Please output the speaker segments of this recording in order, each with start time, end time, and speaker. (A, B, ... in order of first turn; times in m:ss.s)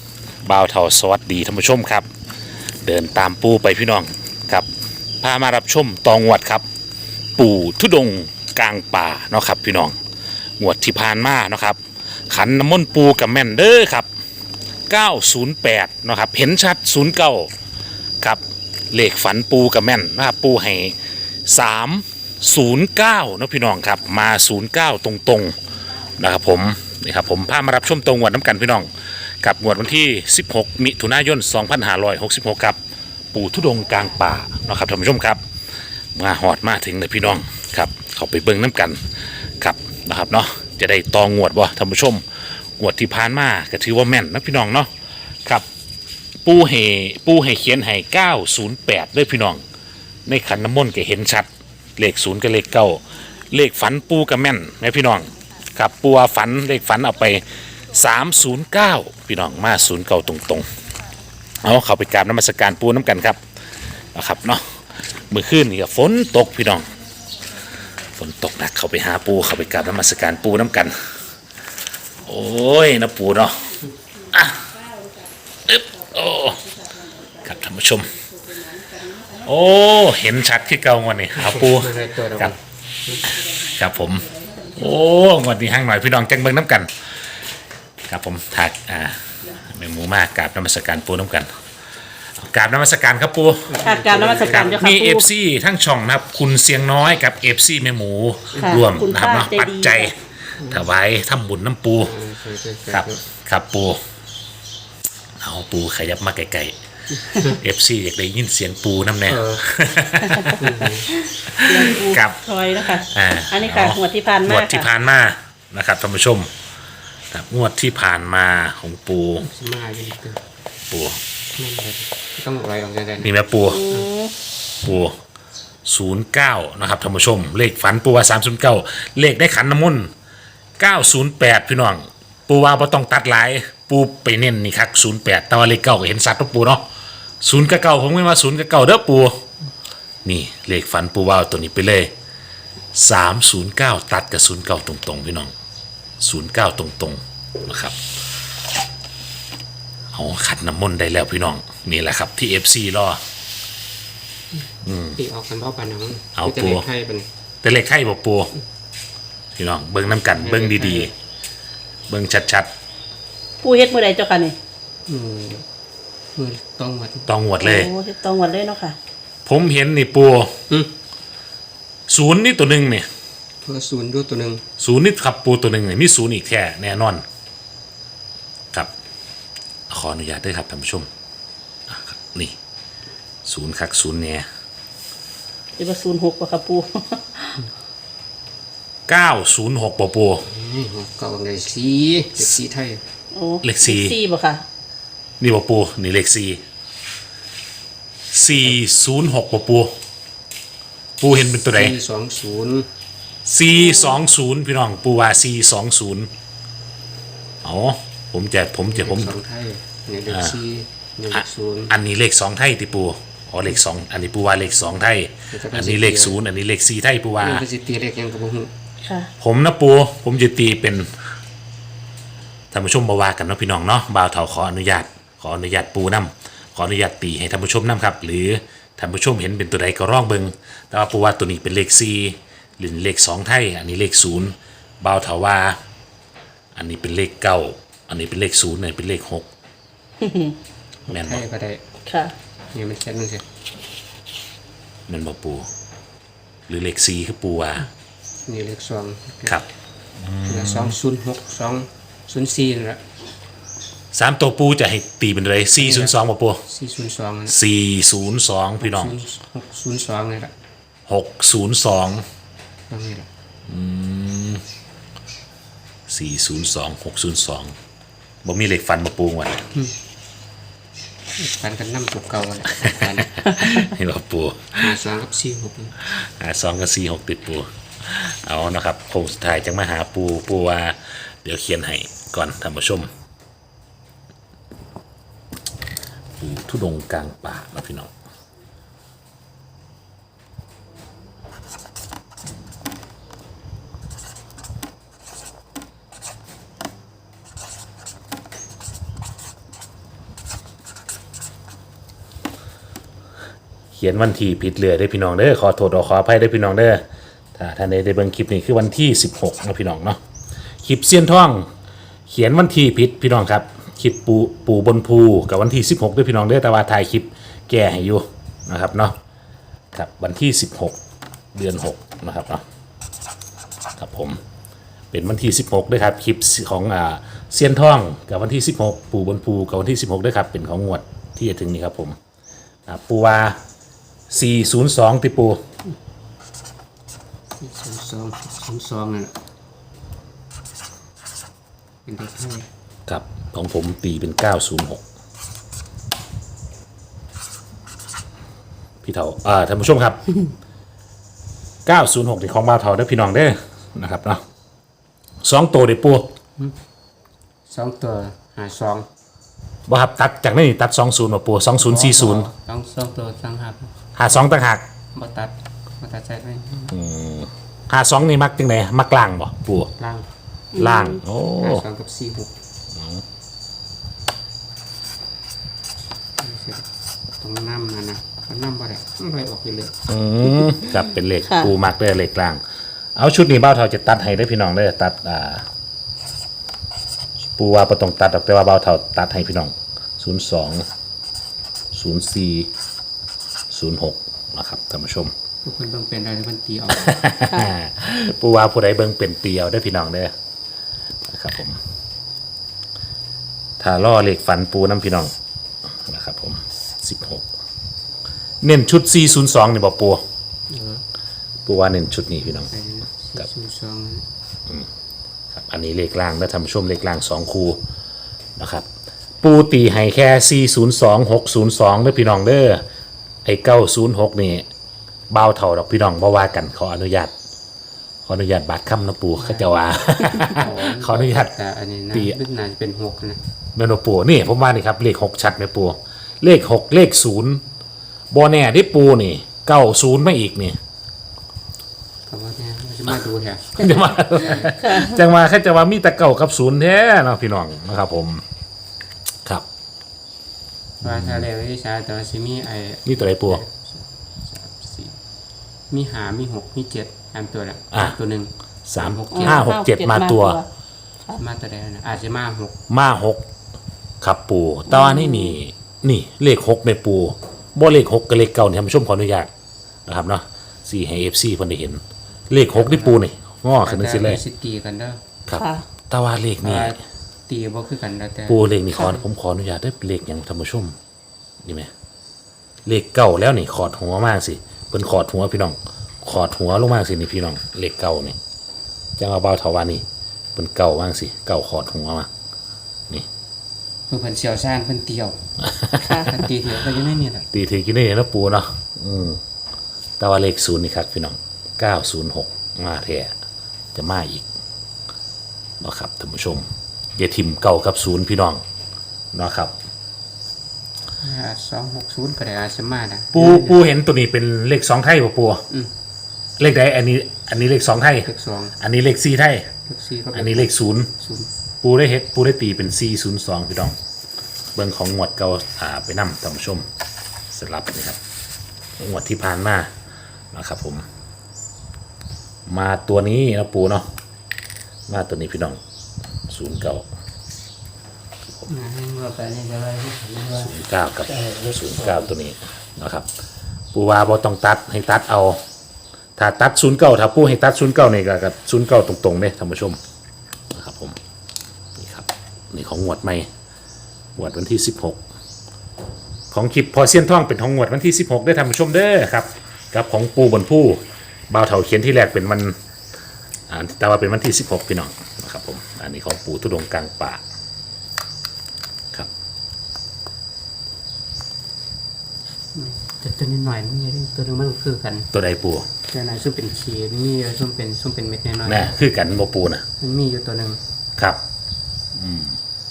0:00.4-0:02.1 A
0:02.8-0:04.7 A
0:05.2-0:06.6 A
0:07.4-0:10.0 A
0:10.6-0:14.1 A
0:14.9-0:17.5 A
0:18.2-0:25.5 A
0:26.2-0:28.9 A
0:29.4-0:32.8 A
0:33.3-0:35.4 A
0:36.1-0:39.0 A
0:39.6-0:42.2 A
0:42.8-0:44.9 A
0:46.4-0:49.6 A
0:50.3-1:00.7 A
1:01.6-1:03.4 A
1:04.1-1:06.9 A
1:08.1-1:11.0 A
1:12.2-1:13.8 A
1:14.3-1:14.7 A
1:15.7-1:16.8 A
1:17.3-1:18.2 A
1:19.1-1:22.5 A
1:21.4-1:23.3 B
1:23.2-1:26.9 A
1:28.1-1:31.5 A
1:32.4-1:33.8 A
1:33.7-1:34.9 B
1:33.8-1:35.2 C
1:34.7-1:42.1 A
1:38.5-1:38.8 B
1:38.6-1:40.1 C
1:42.0-1:43.2 B
1:42.9-1:44.0 A
1:45.4-1:50.8 A
1:49.3-1:49.6 B
1:50.6-1:51.1 B
1:51.5-1:52.4 A
1:51.6-1:54.9 C
1:52.9-1:56.5 A
1:57.3-1:59.5 A
1:59.4-2:00.4 B
2:00.9-2:01.2 A
2:01.5-2:03.3 B
2:03.2-2:03.8 A
2:03.7-2:04.3 C
2:04.8-2:05.2 A
2:05.8-2:10.1 A
2:10.8-2:16.8 A
2:17.4-2:19.4 A
2:20.2-2:22.1 A
2:22.9-2:25.5 A
2:26.2-2:28.0 A
2:30.1-2:33.2 A
2:34.8-2:35.2 A
2:35.1-2:37.2 B
2:36.3-2:36.8 A
2:37.6-2:38.5 A
2:39.5-2:41.1 A
2:40.2-2:41.1 B
2:42.1-2:42.7 A
2:43.6-2:44.6 C
2:45.1-2:45.6 B
2:46.3-2:47.3 B
2:47.3-2:47.9 A
2:47.6-2:49.0 C
2:49.4-2:50.6 A
2:52.1-2:53.1 A
2:53.6-2:54.6 B
2:54.8-2:57.2 A
2:59.9-3:01.1 A
3:01.9-3:02.6 A
3:03.4-3:04.5 A
3:05.8-3:07.6 C
3:09.1-3:10.4 A
3:10.4-3:13.0 B
3:13.3-3:14.6 C
3:13.6-3:14.2 A
3:15.4-3:16.6 A
3:18.3-3:20.0 A
3:21.2-3:22.0 A
3:21.7-3:22.9 B
3:23.4-3:26.3 A
3:27.6-3:29.3 A
3:28.8-3:31.9 B
3:31.3-3:37.6 A
3:35.5-3:36.4 B
3:37.4-3:38.7 B
3:39.4-3:41.1 A
3:42.7-3:55.8 A
3:56.7-3:59.5 A
4:00.2-4:00.6 C
4:01.1-4:01.8 B
4:01.1-4:01.4 A
4:02.0-4:02.3 C
4:02.7-4:03.4 B
4:05.1-4:05.7 A
4:06.7-4:07.9 A
4:08.4-4:09.6 B
4:10.2-4:11.0 A
4:10.5-4:13.0 B
4:14.1-4:16.6 A
4:15.8-4:17.6 B
4:17.5-4:19.2 A
4:18.8-4:20.5 B
4:21.1-4:22.2 A
4:22.9-4:23.3 B
4:23.7-4:24.6 A
4:26.1-4:27.7 A
4:28.4-4:29.7 A
4:31.4-4:33.6 B
4:33.3-4:34.9 A
4:34.8-4:36.0 B
4:36.0-4:43.1 A
4:46.4-4:48.1 A
5:03.9-5:10.2 A
5:10.8-5:11.7 A
5:12.3-5:19.2 A
5:19.9-5:21.0 A
5:21.5-5:22.6 A
5:24.0-5:24.4 A
5:25.1-5:32.2 A
5:32.9-5:33.6 A
5:34.3-5:35.6 A
5:37.6-5:39.3 B
5:42.0-5:42.7 B
5:43.1-5:45.0 A
5:49.0-5:50.2 A
5:51.8-5:54.4 A
5:55.4-5:56.3 A
5:57.7-5:59.1 B
5:59.9-6:02.5 A
6:01.8-6:03.9 B
6:04.1-6:04.8 A
6:05.1-6:06.9 B
6:06.9-6:09.9 A
6:10.0-6:10.3 B
6:10.7-6:11.2 C
6:10.7-6:11.8 A
6:11.6-6:12.5 B
6:12.9-6:13.2 A
6:16.4-6:16.8 B
6:17.4-6:19.9 B
6:20.1-6:22.6 A
6:21.4-6:21.7 C
6:23.2-6:25.6 A
6:27.6-6:30.8 A
6:31.9-6:32.7 A
6:33.7-6:35.3 A
6:35.6-6:37.2 B
6:36.9-6:40.3 A
6:41.3-6:41.8 A
6:43.8-6:45.3 A
6:46.0-6:47.4 A
6:48.6-6:50.2 A
6:50.7-6:51.0 B
6:51.6-6:52.7 A
6:52.7-6:54.2 B
6:55.5-6:57.8 A
6:58.6-6:58.8 A
6:59.4-7:02.8 A
7:03.4-7:04.7 A
7:05.3-7:07.3 A
7:08.2-7:11.5 A
7:09.4-7:09.7 B
7:10.5-7:13.4 B
7:13.7-7:17.6 A
7:18.3-7:20.8 A
7:22.3-7:24.7 B
7:23.8-7:28.4 A
7:24.8-7:25.2 C
7:31.0-7:35.2 B
7:31.0-7:31.4 A
7:33.0-7:33.6 A
7:35.9-7:39.7 B
7:38.9-7:40.6 A
7:39.3-7:40.6 C
7:41.4-7:42.8 B
7:42.9-7:43.4 A
7:44.2-7:49.5 A
7:44.9-7:45.6 C
7:50.1-7:54.4 A
7:52.7-7:53.2 B
7:53.8-7:55.2 B
7:55.5-7:57.0 A
7:55.6-7:55.8 C
7:56.6-7:57.0 B
7:57.5-7:59.2 B
7:58.5-8:01.0 A
8:01.6-8:01.9 A
8:02.8-8:08.4 A
8:09.2-8:12.3 A
8:14.1-8:15.4 B
8:15.7-8:16.2 A
8:15.9-8:16.3 C
8:16.1-8:17.5 B
8:17.5-8:19.4 A
8:20.2-8:23.3 A
8:23.9-8:24.4 A
8:25.8-8:28.6 A
8:29.3-8:29.7 A
8:31.2-8:33.8 B
8:33.3-8:35.6 A
8:36.6-8:39.7 A
8:38.2-8:38.8 B
8:39.8-8:41.5 B
8:40.3-8:41.1 A
8:41.8-8:44.0 A
8:44.7-8:46.9 A
8:47.5-8:48.2 A
8:49.0-8:49.9 A
8:50.5-8:51.0 A
8:52.7-8:54.1 A
8:55.1-8:55.8 A
8:56.5-8:57.0 A
8:58.6-9:00.7 B
9:00.6-9:03.3 A
9:01.3-9:02.3 B
9:03.9-9:05.6 A
9:06.4-9:10.0 A
9:10.7-9:11.2 A
9:12.0-9:13.5 A
9:14.4-9:15.2 A
9:16.5-9:22.8 A
9:23.7-9:27.4 A
9:32.7-9:35.3 B
9:35.3-9:35.9 A
9:36.1-9:38.9 B
9:38.6-9:39.8 A
9:40.0-9:40.8 B
9:42.1-9:42.6 A